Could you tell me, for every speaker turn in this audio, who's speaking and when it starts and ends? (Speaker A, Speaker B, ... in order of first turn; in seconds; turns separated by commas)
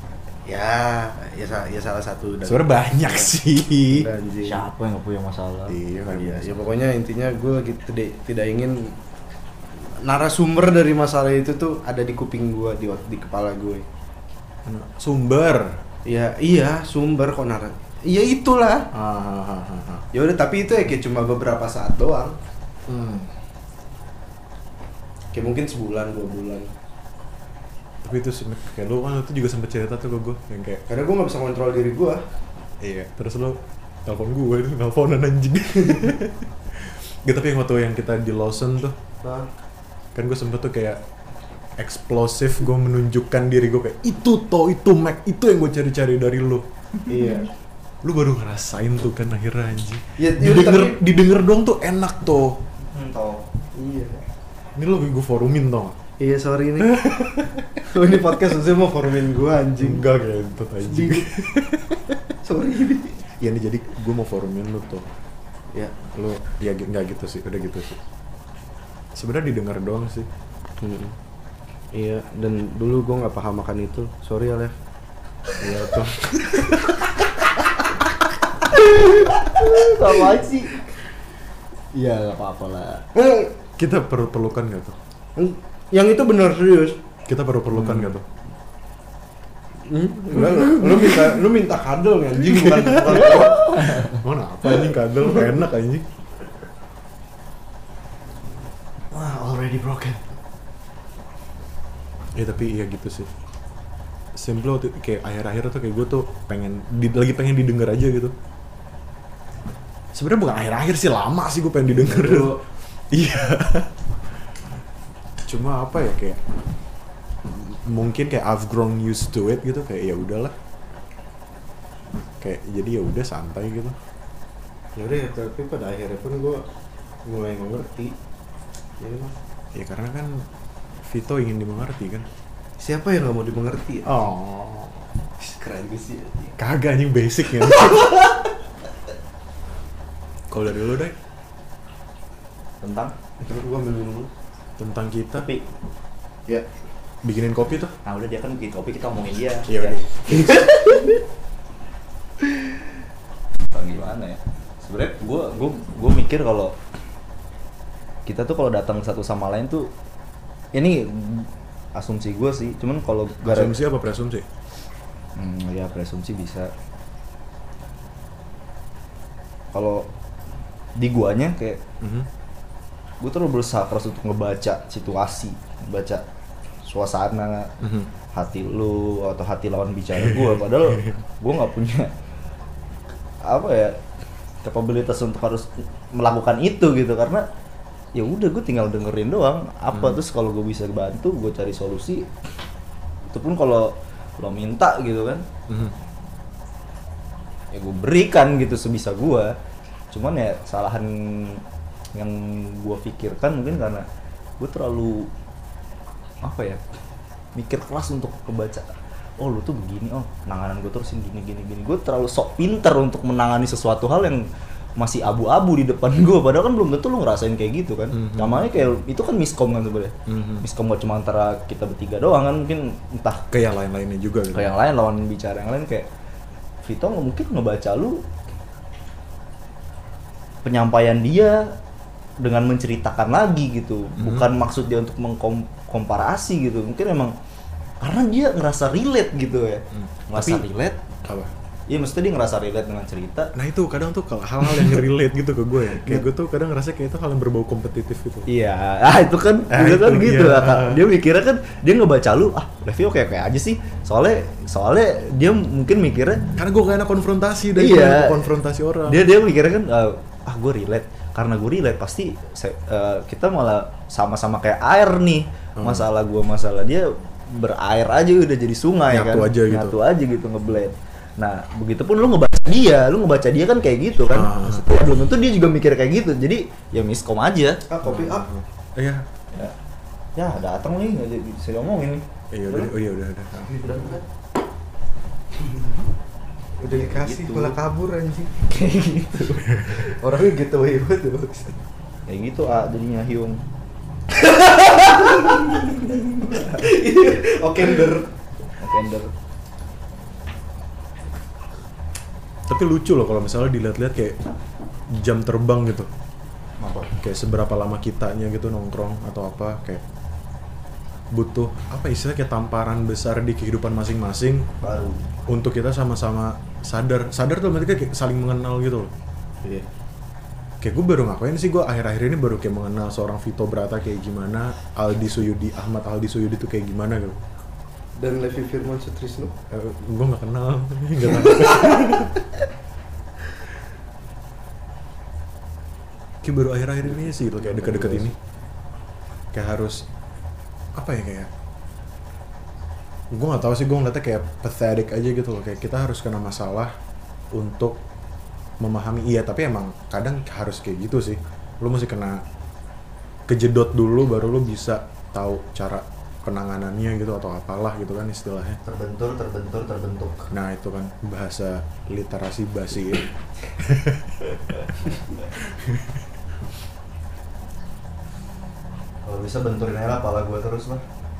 Speaker A: 0.5-3.3, Speaker B: 2.4-4.1, Speaker A: 3.9-4.6, Speaker C: 4.4-5.8, Speaker B: 5.7-6.6, Speaker A: 6.1-8.9, Speaker A: 10.0-13.8, Speaker B: 14.6-15.8, Speaker A: 16.1-18.9, Speaker B: 18.9-20.0, Speaker A: 20.1-22.3, Speaker B: 22.9-23.3, Speaker A: 25.3-26.7, Speaker B: 28.0-30.8, Speaker A: 30.9-32.2, Speaker B: 32.8-39.0, Speaker A: 39.2-39.5, Speaker B: 40.1-41.0, Speaker B: 41.8-46.7, Speaker A: 47.1-47.5, Speaker B: 48.0-52.6, Speaker A: 50.2-51.0, Speaker C: 52.9-53.4, Speaker A: 53.7-54.2, Speaker B: 54.8-56.0, Speaker A: 56.2-57.0, Speaker B: 56.8-57.6, Speaker A: 57.8-60.0, Speaker B: 59.8-62.2, Speaker A: 60.9-61.3, Speaker A: 62.4-63.2, Speaker B: 63.4-65.1, Speaker B: 66.1-68.0, Speaker B: 69.1-70.3, Speaker A: 70.8-71.2, Speaker A: 71.9-74.7, Speaker B: 75.6-76.8, Speaker A: 75.8-76.6, Speaker C: 79.0-80.8, Speaker C: 81.9-83.0, Speaker A: 83.1-83.5, Speaker B: 83.8-85.0, Speaker A: 85.3-87.0, Speaker B: 87.3-88.2, Speaker C: 87.7-88.1, Speaker A: 89.8-93.8, Speaker B: 90.3-91.3, Speaker B: 92.4-96.1, Speaker C: 93.2-94.2, Speaker C: 99.1-100.2, Speaker B: 102.3-103.3, Speaker B: 104.3-108.3, Speaker B: 110.1-114.0, Speaker A: 111.9-112.6, Speaker B: 115.4-116.4, Speaker B: 117.4-120.5, Speaker B: 122.4-124.0, Speaker A: 125.0-126.6, Speaker A: 127.2-128.1, Speaker A: 129.0-129.3, Speaker B: 129.7-130.5, Speaker B: 131.0-132.3, Speaker A: 132.8-134.2, Speaker B: 134.0-135.1, Speaker A: 135.4-136.5, Speaker B: 136.6-138.2, Speaker B: 140.5-141.1, Speaker C: 142.8-143.1, Speaker A: 143.4-144.3, Speaker B: 144.8-145.5, Speaker C: 145.3-145.6, Speaker B: 147.2-147.9, Speaker C: 148.0-151.2, Speaker B: 149.7-150.7, Speaker C: 153.7-156.8, Speaker C: 158.2-159.9, Speaker C: 160.7-163.7, Speaker B: 163.4-164.4, Speaker C: 165.3-166.7, Speaker C: 169.7-170.1, Speaker C: 170.9-171.8, Speaker B: 172.0-172.3, Speaker C: 173.2-176.2, Speaker C: 176.8-177.7, Speaker B: 177.8-178.1, Speaker C: 178.3-182.1, Speaker B: 180.2-181.1, Speaker C: 183.4-184.0, Speaker C: 184.6-187.4, Speaker C: 188.1-192.3, Speaker B: 189.9-190.2, Speaker C: 193.3-195.4, Speaker B: 195.7-195.9, Speaker C: 197.7-199.5, Speaker C: 200.1-204.1, Speaker C: 204.6-205.3, Speaker C: 206.4-206.8, Speaker C: 207.5-214.4, Speaker C: 215.0-223.4, Speaker B: 218.1-218.7, Speaker B: 220.3-220.6, Speaker B: 223.5-224.7, Speaker C: 224.5-226.1, Speaker C: 226.8-228.2, Speaker C: 230.6-231.7, Speaker C: 232.4-237.3, Speaker B: 234.2-234.5, Speaker C: 238.0-241.0, Speaker B: 239.9-240.7, Speaker B: 241.2-241.5, Speaker C: 241.9-243.5, Speaker B: 243.5-248.5, Speaker C: 248.5-256.4, Speaker B: 249.7-251.0, Speaker B: 256.6-259.2, Speaker C: 257.7-258.5, Speaker C: 259.1-278.2, Speaker B: 265.8-266.1, Speaker B: 269.1-269.9, Speaker B: 274.3-274.8, Speaker A: 277.9-278.5, Speaker B: 278.4-279.3, Speaker C: 280.3-282.9, Speaker B: 282.5-283.7, Speaker C: 283.6-284.2, Speaker A: 286.8-288.7, Speaker C: 286.8-287.8, Speaker C: 288.6-290.2, Speaker A: 290.1-291.8, Speaker C: 292.3-293.6, Speaker A: 294.3-298.3, Speaker C: 295.5-296.9, Speaker C: 298.8-299.3, Speaker B: 302.7-304.4, Speaker B: 305.1-306.1, Speaker C: 306.8-307.1, Speaker B: 307.1-310.0, Speaker B: 311.3-314.7, Speaker C: 314.8-315.2, Speaker B: 315.5-319.1, Speaker B: 320.8-327.4, Speaker A: 328.2-329.5, Speaker B: 329.7-332.3, Speaker B: 336.4-338.4, Speaker A: 337.1-338.3, Speaker B: 339.5-340.1, Speaker B: 340.9-341.5, Speaker B: 343.3-346.9, Speaker B: 347.5-348.0, Speaker B: 348.8-352.4, Speaker B: 353.5-358.8, Speaker C: 358.8-360.5, Speaker B: 360.5-364.4, Speaker B: 365.5-366.2, Speaker C: 369.2-371.1